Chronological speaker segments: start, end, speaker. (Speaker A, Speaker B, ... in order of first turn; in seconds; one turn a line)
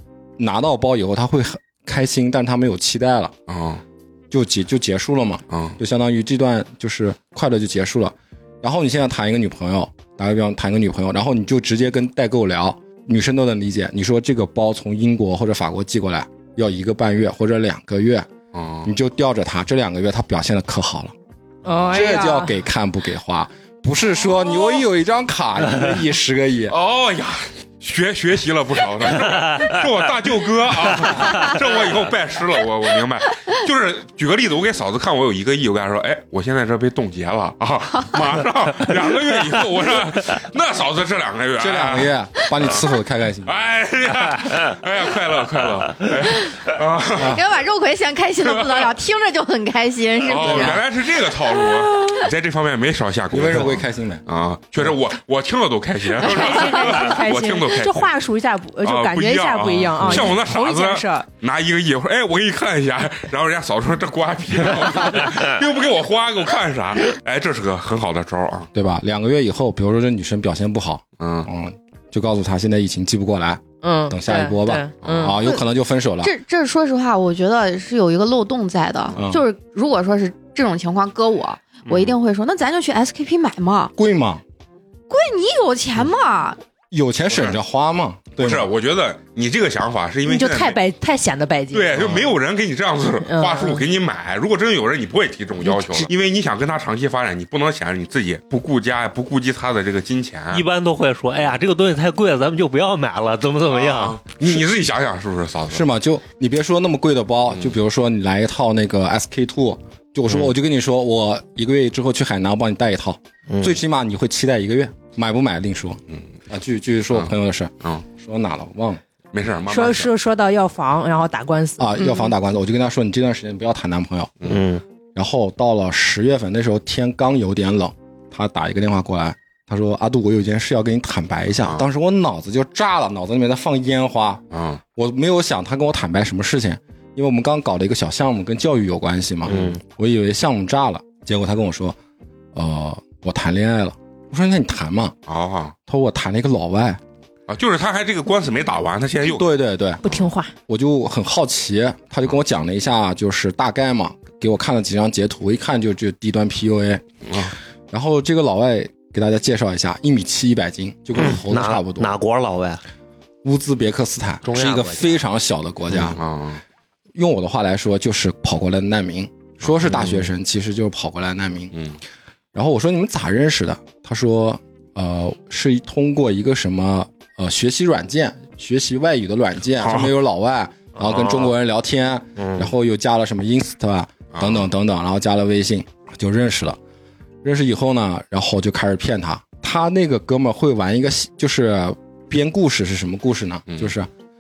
Speaker A: 0.4-3.3
Speaker B: 3.5-3.8
Speaker A: 4.3-18.3
Speaker B: 5.5-5.8
Speaker B: 18.5-18.9
Speaker A: 18.8-21.1
Speaker C: 21.6-22.5
Speaker A: 21.9-26.8
Speaker B: 26.7-42.9
Speaker A: 41.6-43.5
Speaker B: 43.5-47.4
Speaker D: 47.2-50.8
Speaker B: 48.5-48.9
Speaker B: 50.2-58.1
Speaker A: 50.3-50.8
Speaker A: 53.3-54.2
Speaker C: 56.1-61.3
Speaker B: 58.8-68.7
Speaker A: 68.7-76.3
Speaker B: 71.2-71.5
Speaker C: 73.8-75.4
Speaker B: 75.0-75.4
Speaker D: 76.2-83.9
Speaker A: 79.1-79.4
Speaker A: 84.0-84.4
Speaker D: 85.1-86.6
Speaker A: 86.9-88.7
Speaker B: 88.4-90.8
Speaker C: 90.3-92.2
Speaker B: 91.7-100.7
Speaker C: 93.2-93.8
Speaker C: 95.6-96.1
Speaker E: 100.5-104.2
Speaker B: 103.7-105.9
Speaker A: 105.7-119.0
Speaker E: 113.5-113.8
Speaker B: 119.3-120.1
Speaker C: 119.7-122.3
Speaker A: 121.8-124.4
Speaker E: 124.5-124.8
Speaker A: 125.2-134.4
Speaker B: 131.6-131.8
Speaker B: 134.5-134.8
Speaker A: 135.0-142.0
Speaker B: 139.5-139.7
Speaker E: 139.5-139.8
Speaker A: 142.5-145.2
Speaker B: 145.3-145.8
Speaker A: 145.9-147.0
Speaker B: 147.5-149.5
Speaker A: 149.2-150.1
Speaker C: 150.0-150.5
Speaker A: 150.7-157.0
Speaker B: 157.3-157.5
Speaker A: 157.9-162.2
Speaker E: 161.2-162.8
Speaker A: 163.4-166.2
Speaker E: 164.4-165.2
Speaker B: 166.0-166.6
Speaker A: 167.2-171.7
Speaker E: 169.9-170.3
Speaker A: 172.5-186.8
Speaker B: 179.8-180.2
Speaker E: 181.0-181.5
Speaker E: 182.4-182.7
Speaker B: 184.3-184.7
Speaker A: 187.4-194.1